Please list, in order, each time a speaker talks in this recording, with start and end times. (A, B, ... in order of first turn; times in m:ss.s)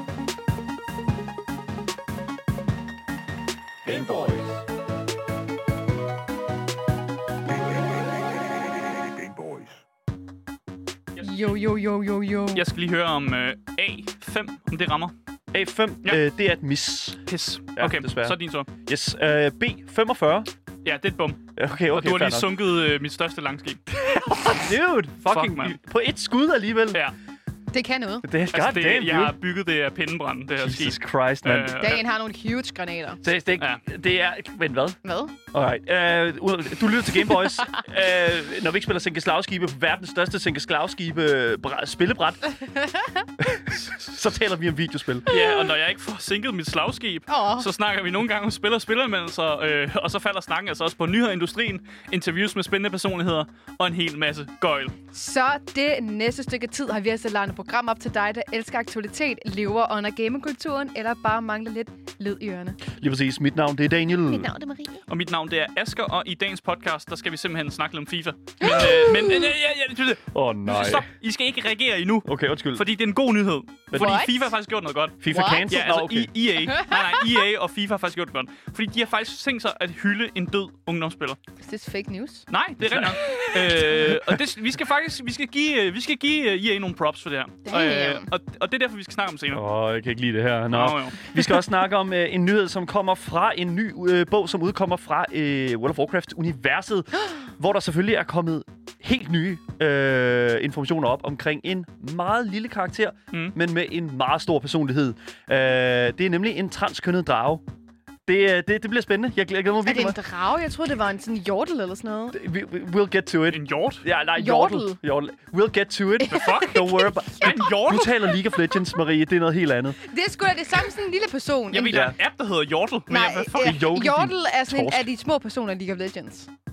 0:03.8-0:04.6 A
0:07.5-0:09.7 A
0:11.2-0:12.6 B
0:12.5-0:15.1 C
0:15.5-0:20.5 D
0:17.3-0:18.7 C
0:20.8-0:23.8 C
0:21.6-0:22.5 D
0:23.9-0:27.0 D
0:25.2-0:25.8 C
0:27.7-0:28.2 B
0:28.2-0:29.4 D
0:28.5-0:32.0 C
0:30.6-0:31.8 D
0:31.8-0:33.2 B
0:33.2-0:35.0 D
0:35.0-0:35.3 B
0:35.5-0:42.5 D
0:37.1-0:37.8 B
0:42.4-0:43.3 B
0:43.4-0:45.3 D
0:45.2-0:55.0 C
0:45.3-0:45.7 B
0:47.3-0:47.7 B
0:55.1-1:02.8 B
1:02.9-1:04.5 D
1:04.3-1:05.0 B
1:05.1-1:21.4 C
1:08.6-1:09.5 B
1:10.3-1:11.1 D
1:12.2-1:12.8 D
1:13.9-1:14.2 D
1:14.0-1:14.4 B
1:15.2-1:16.3 D
1:15.3-1:15.7 B
1:16.7-1:17.0 B
1:21.6-1:22.5 B
1:22.5-1:29.6 C
1:22.8-1:23.2 D
1:24.1-1:24.4 D
1:27.6-1:28.3 B
1:29.5-1:47.6 D
1:30.7-1:31.5 C
1:48.2-1:50.2 D
1:49.8-1:52.4 B
1:52.3-2:00.0 D
1:53.5-1:54.0 C
1:54.4-1:55.0 B
1:56.2-1:58.0 B
1:56.2-1:58.2 C
2:00.0-2:02.1 B
2:01.7-2:03.8 C
2:01.9-2:02.2 D
2:03.1-2:06.5 B
2:03.6-2:05.1 D